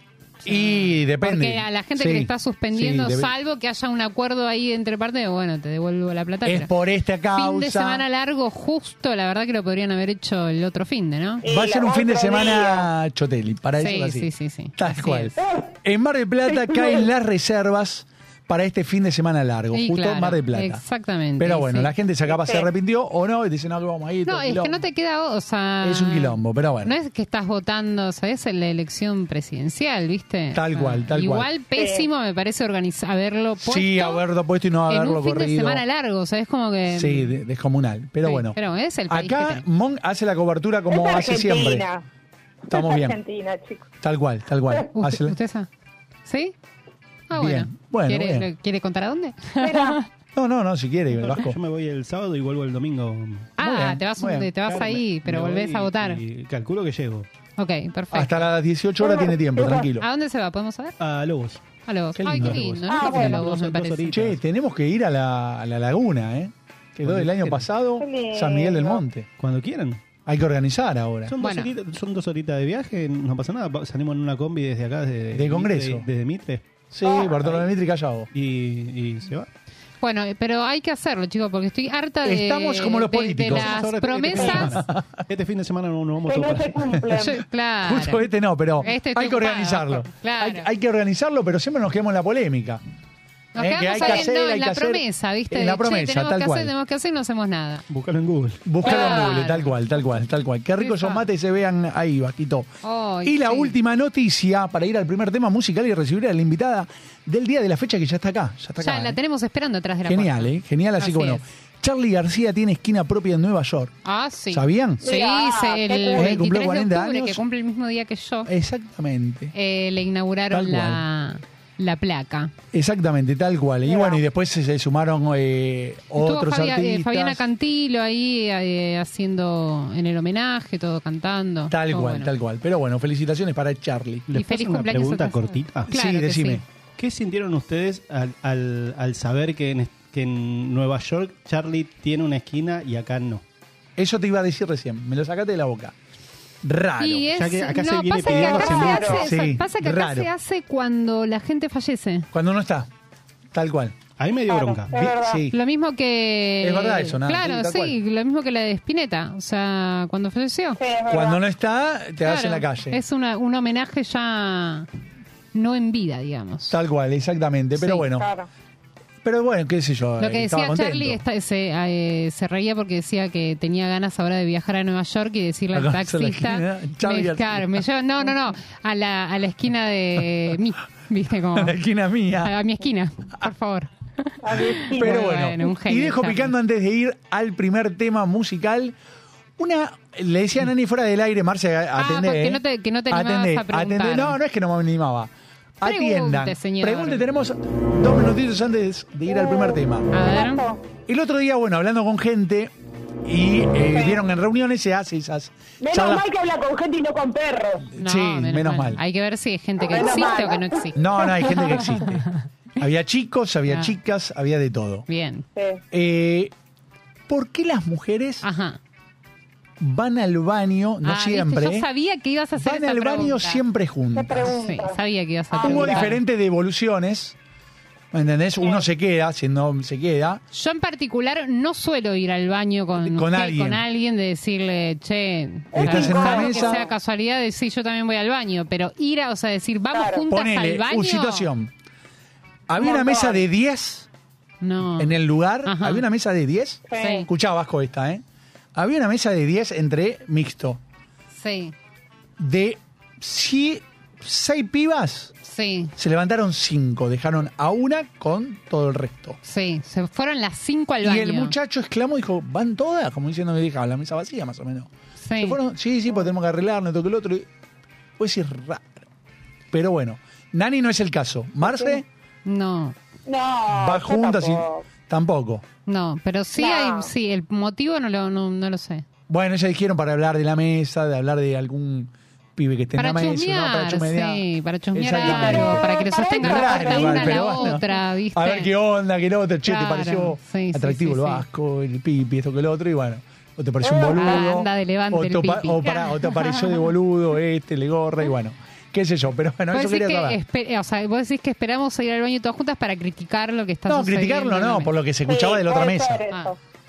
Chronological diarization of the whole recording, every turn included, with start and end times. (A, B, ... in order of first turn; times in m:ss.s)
0:00.4-0:06.7 A
0:00.4-0:03.3 B
0:06.4-0:08.0 B
0:07.3-0:11.4 A
0:11.4-0:12.9 C
0:11.4-0:20.8 B
0:13.8-0:15.4 A
0:15.4-0:15.7 C
0:16.6-0:16.9 C
0:19.7-0:21.9 A
0:21.4-0:24.8 B
0:22.3-0:22.7 C
0:24.3-0:34.2 A
0:25.8-0:26.9 B
0:30.5-0:31.5 B
0:31.8-0:32.1 C
0:33.6-0:35.8 B
0:34.9-0:37.3 A
0:36.9-0:41.9 B
0:38.2-0:39.6 A
0:40.9-0:42.0 C
0:42.7-0:43.9 C
0:42.7-0:43.2 B
0:44.0-0:45.4 B
0:45.0-0:45.7 A
0:46.3-0:46.6 A
0:47.3-0:50.1 A
0:47.3-0:48.5 B
0:49.6-0:50.0 C
0:50.4-0:51.6 B
0:51.2-0:53.5 D
0:53.6-0:56.2 A
0:53.6-0:54.9 B
0:54.7-0:57.3 D
0:57.6-0:58.5 A
0:58.1-1:00.1 B
0:59.0-0:59.9 C
1:00.0-1:01.0 A
1:01.0-1:01.6 D
1:01.8-1:04.2 A
1:02.2-1:02.8 B
1:02.3-1:04.4 D
1:02.9-1:03.4 C
1:04.1-1:09.3 B
1:07.1-1:07.7 D
1:08.0-1:09.0 C
1:09.4-1:10.0 D
1:10.3-1:11.4 B
1:11.3-1:16.8 D
1:11.4-1:11.7 A
1:15.3-1:16.1 B
1:16.9-1:18.3 B
1:17.0-1:17.4 C
1:18.3-1:19.5 D
1:20.0-1:24.8 A
1:22.2-1:23.8 B
1:23.4-1:27.0 D
1:24.4-1:25.2 B
1:26.3-1:27.4 C
1:27.2-1:28.2 A
1:27.8-1:32.8 B
1:28.8-1:30.7 A
1:33.6-1:36.7 B
1:33.6-1:37.8 A
1:37.9-1:38.7 D
1:38.6-1:42.7 B
1:38.8-1:39.7 A
1:38.9-1:39.4 C
1:40.8-1:41.2 A
1:42.8-1:43.7 A
1:43.2-1:49.2 B
1:48.8-1:51.4 A
1:50.1-1:54.0 B
1:54.0-1:58.5 A
1:54.5-1:55.0 B
1:55.0-1:56.3 C
1:56.1-1:57.4 B
1:58.5-1:59.5 B
1:59.5-2:02.5 A
2:00.5-2:01.0 B
2:02.7-2:07.4 B
2:03.9-2:04.2 C
2:06.2-2:12.3 A
2:11.7-2:14.3 B
2:14.3-2:15.9 D
2:14.3-2:16.6 A
2:15.9-2:16.6 B
2:17.0-2:23.4 D
2:24.0-2:26.0 B
2:26.6-2:27.4 B
2:27.0-2:32.3 A
2:27.3-2:29.2 D
2:28.2-2:29.2 C
2:29.2-2:30.3 B
2:32.3-2:32.9 B
2:33.5-2:34.0 B
2:34.2-2:35.0 D
2:34.5-2:35.4 C
2:34.9-2:35.6 B
2:35.5-2:40.8 A
2:36.6-2:38.0 B
2:40.8-2:41.4 C
2:41.1-2:43.0 B
2:42.2-2:44.9 A
2:45.5-2:46.8 A
2:46.7-2:48.3 B
2:47.8-2:48.0 A
2:48.2-2:48.5 C
2:49.2-2:51.2 B
2:50.2-3:01.8 A
2:55.7-2:57.8 B
3:01.6-3:02.5 B
3:02.4-3:06.5 A
3:04.4-3:05.2 C
3:04.9-3:09.0 B
3:09.6-3:20.1 B
3:12.0-3:14.4 A
3:15.8-3:17.2 A
3:19.3-3:20.8 C
3:20.1-3:20.6 A
3:21.1-3:22.7 B
3:23.2-3:26.3 B
3:23.9-3:24.2 C
3:25.8-3:27.9 C
3:27.9-3:29.0 B
3:28.0-3:32.2 A
3:29.8-3:31.7 C
3:31.0-3:32.3 B
3:32.8-3:35.1 B
3:33.7-3:34.0 A
3:35.1-3:35.5 A
3:35.6-3:35.8 C
3:35.9-3:36.5 B
3:37.3-3:38.5 B
3:38.4-3:38.8 A
3:39.8-3:41.9 B
3:41.0-3:43.6 A
3:42.6-3:44.6 B
3:44.1-3:45.0 C
3:44.5-3:46.2 A
3:45.5-3:46.1 C
3:45.6-3:47.4 B
3:48.1-3:50.4 B
3:50.5-4:01.5 A
3:53.0-3:53.8 B
3:55.7-3:56.9 C
3:55.8-3:56.8 B
3:59.9-4:00.2 C
4:00.3-4:01.7 B
4:02.7-4:04.1 B
4:02.8-4:03.4 C
4:04.6-4:06.0 A
4:05.0-4:08.2 B
4:06.9-4:07.3 C
4:07.0-4:07.3 A
4:08.8-4:10.8 B
4:11.4-4:11.7 A
4:12.4-4:15.3 B
4:15.4-4:15.9 A
4:16.0-4:19.4 B
4:19.4-4:21.6 A
4:21.0-4:27.5 B
4:25.2-4:25.6 A
4:28.2-4:29.0 B
4:29.7-4:32.1 B
4:31.6-4:32.0 C
4:32.4-4:33.0 A
4:33.3-4:34.8 C
4:33.7-4:35.6 B
4:35.9-4:39.0 A
4:36.6-4:37.1 C
4:39.3-5:00.4 B
4:43.0-4:48.7 A
4:45.1-4:47.9 C
4:49.7-4:51.4 A
4:53.8-4:54.4 C
4:54.2-4:56.9 A
4:59.7-5:04.9 A
5:03.9-5:06.2 B
5:05.3-5:06.6 C